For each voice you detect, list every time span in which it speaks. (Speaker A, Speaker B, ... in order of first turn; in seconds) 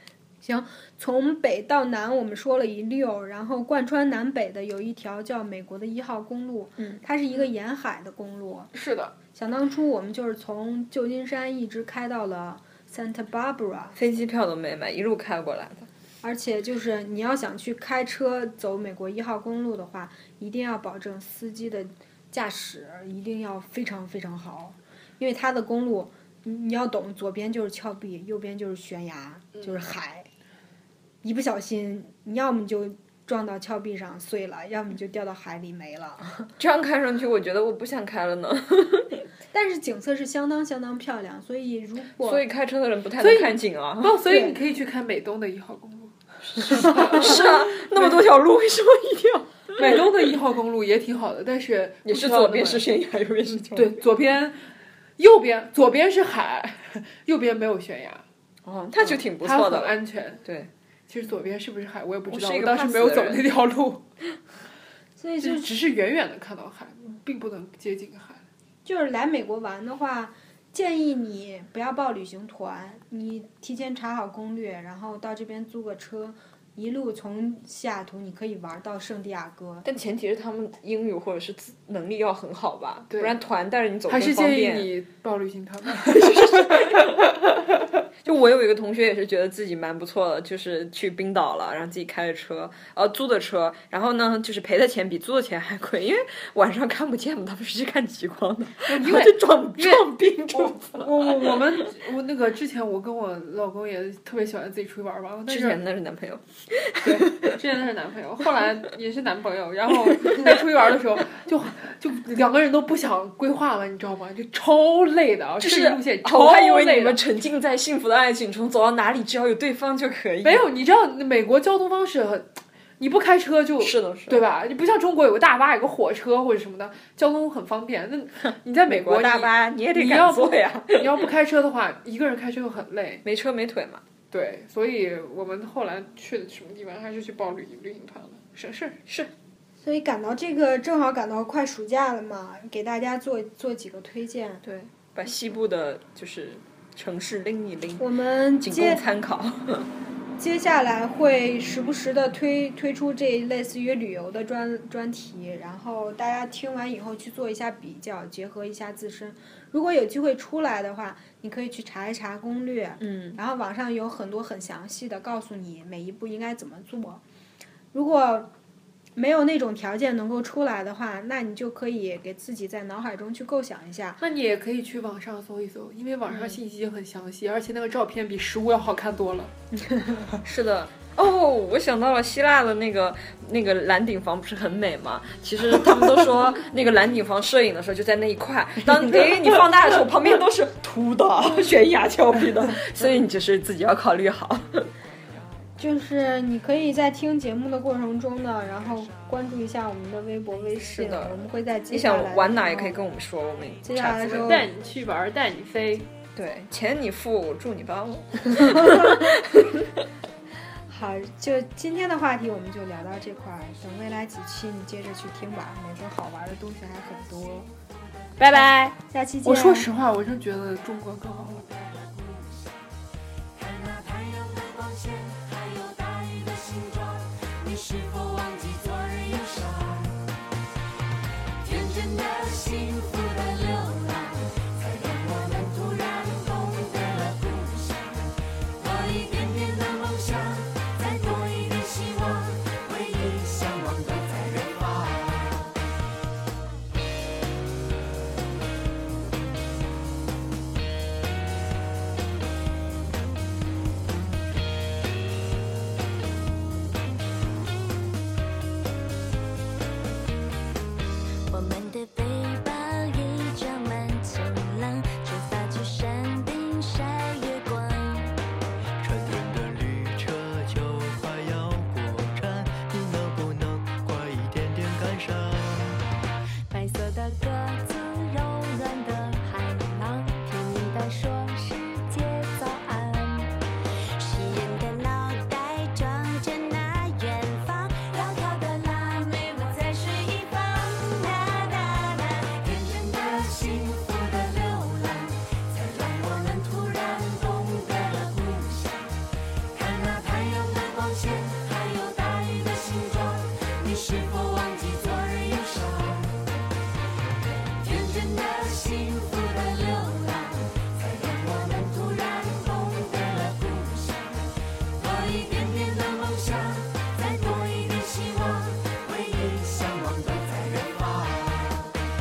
Speaker A: 0.4-8.7, 9.3-14.0, 16.2-30.3, 31.2-36.5, 39.5-42.4, 44.3-44.5, 65.2-65.7, 68.8-79.8, 139.8-144.6, 148.0-149.0, 150.4-167.2, 167.9-168.5, 169.2-174.2, 179.8-180.2, 195.8-203.0, 203.8-204.7, 208.8-209.2, 210.9-217.7, 218.5-219.9
Speaker B: 8.7-9.1, 43.2-47.4, 49.8-52.9, 53.7-58.2, 59.0-60.4, 61.1-64.0, 65.4-68.4, 84.1-87.0, 98.8-105.8, 107.0-117.2, 120.4-133.2, 134.3-139.0, 174.2-179.5, 204.3-206.1, 219.4-221.7
Speaker C: 13.9-15.9, 36.6-39.2, 42.2-44.2, 46.6-50.1, 52.0-54.0, 58.6-60.7, 62.3-63.4, 79.8-84.9, 86.0-87.3, 88.2-101.7, 105.5-107.6, 110.1-110.6, 115.6-120.6, 123.8-124.4, 128.8-131.2, 133.2-134.0, 139.1-139.3, 144.6-149.9, 163.0-163.4, 180.4-194.9, 200.8-204.5, 206.3-209.9, 218.4-219.0
Speaker D: 221.6-222.7, 223.6-230.2, 231.6-245.8, 261.5-268.4, 276.7-283.6, 284.1-306.4, 307.2-322.0
Speaker E: 269.0-276.1